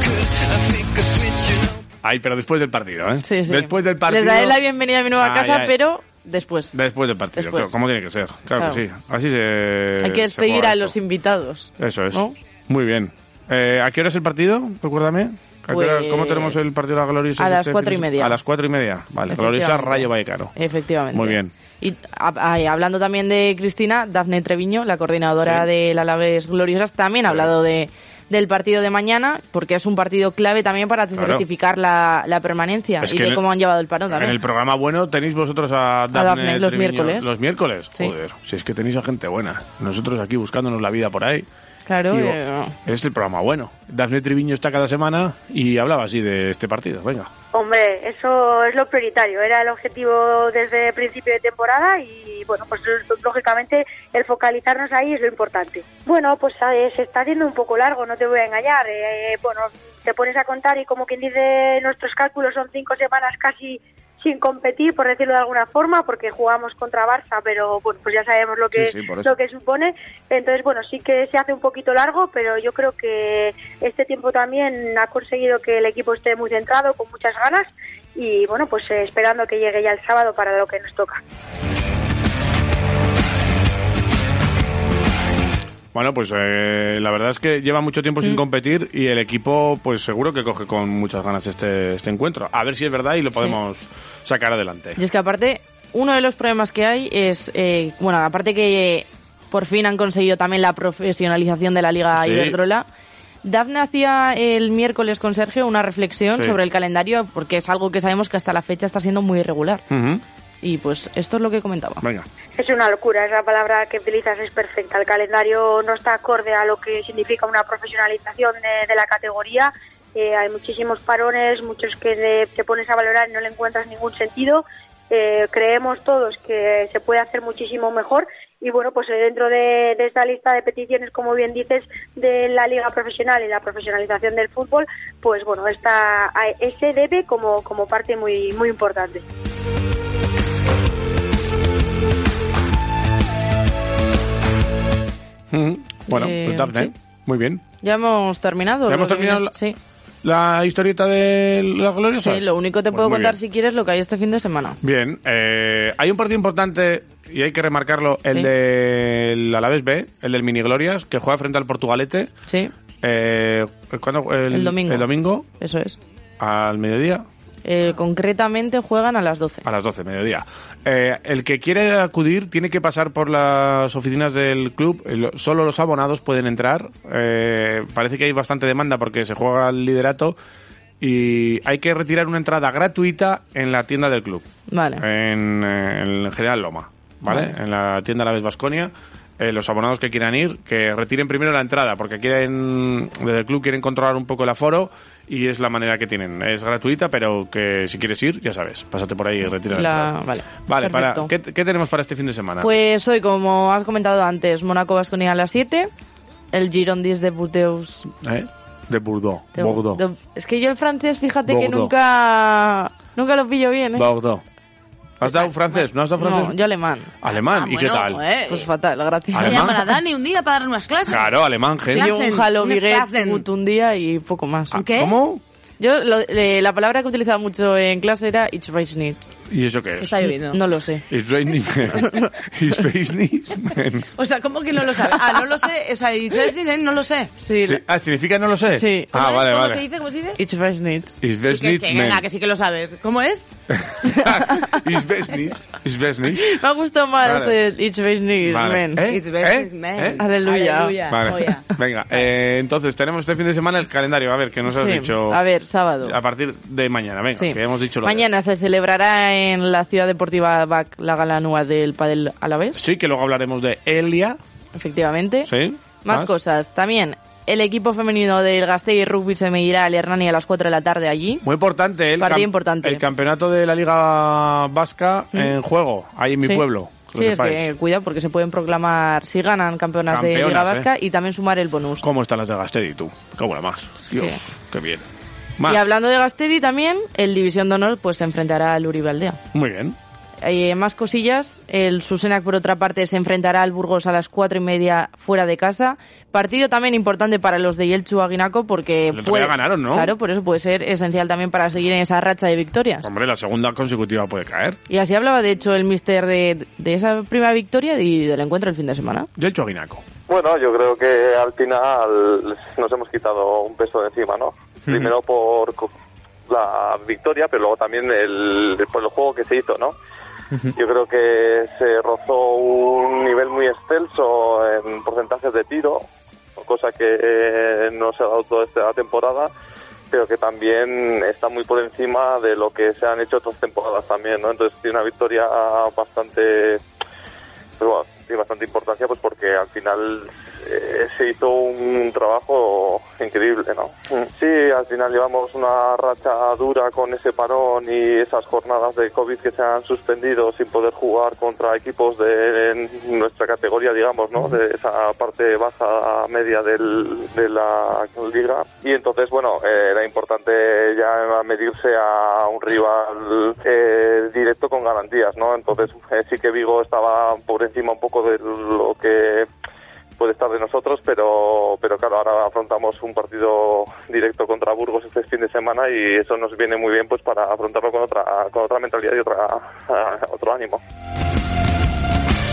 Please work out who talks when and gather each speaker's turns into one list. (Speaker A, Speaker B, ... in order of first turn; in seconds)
Speaker A: 2.0-4.6, 5.2-5.7, 6.7-10.9, 11.8-20.5, 21.1-21.5, 31.2-31.4, 33.0-33.4, 34.1-41.5, 42.1-47.3, 68.8-69.3, 85.9-95.0, 102.2-102.6, 109.9-110.2, 145.5-147.6, 148.9-149.5, 150.2-153.4, 154.8-162.3, 163.0-165.4, 166.4-167.2, 169.7-180.4, 181.0-184.5, 185.0-200.1, 200.7-202.7, 208.2-210.0, 211.5-211.9, 214.0-214.4, 215.2-216.6, 217.2-218.2, 219.3-219.8, 221.1-222.1, 224.8-225.4, 229.5-230.2, 231.1-234.1, 237.7-239.8, 241.2-242.2, 243.7-246.6, 247.2-247.6, 248.4-250.2, 251.1-255.4, 256.0-258.3, 262.8-264.4, 265.5-266.3, 271.4-277.7, 280.1-280.9, 282.0-285.0, 289.5-290.0, 299.1-300.1, 303.0-304.8, 309.4-310.0
Speaker B: 3.3-6.7, 7.4-7.7, 8.6-8.8, 10.0-12.3, 15.7-16.7, 17.4-18.4, 19.3-34.4, 36.1-37.3, 41.9-42.7, 95.0-102.9, 103.4-109.8, 110.6-112.0, 146.1-146.9, 147.8-149.8, 152.2-154.8, 162.5-162.7, 164.5-166.0, 167.7-169.7, 184.7-185.0, 187.3-187.5, 199.7-201.3, 202.6-205.9, 206.5-208.1, 209.6-214.1, 216.2-217.1, 218.5-219.7, 221.9-224.8, 225.8-229.3, 230.4-231.1, 231.9-232.3, 237.4-237.8, 238.7-239.1, 240.4-241.1, 244.1-244.8, 246.3-249.0, 250.2-251.0, 254.7-256.2, 257.4-262.8, 264.8-265.5, 266.0-271.4, 272.2-273.0, 277.2-282.0, 284.1-284.4, 285.7-289.4, 290.4-303.1, 304.9-309.3
Speaker C: 47.5-81.2, 112.6-139.2
Speaker D: 217.3-218.7, 219.4-223.4, 224.8-225.2, 230.0-230.6, 234.2-237.3, 239.1-240.4, 241.4-243.5, 249.1-252.3
Speaker E: 310.3-315.9, 316.5-319.9, 320.7-326.1, 326.6-329.5, 330.1-336.8, 337.8-369.5, 370.2-380.8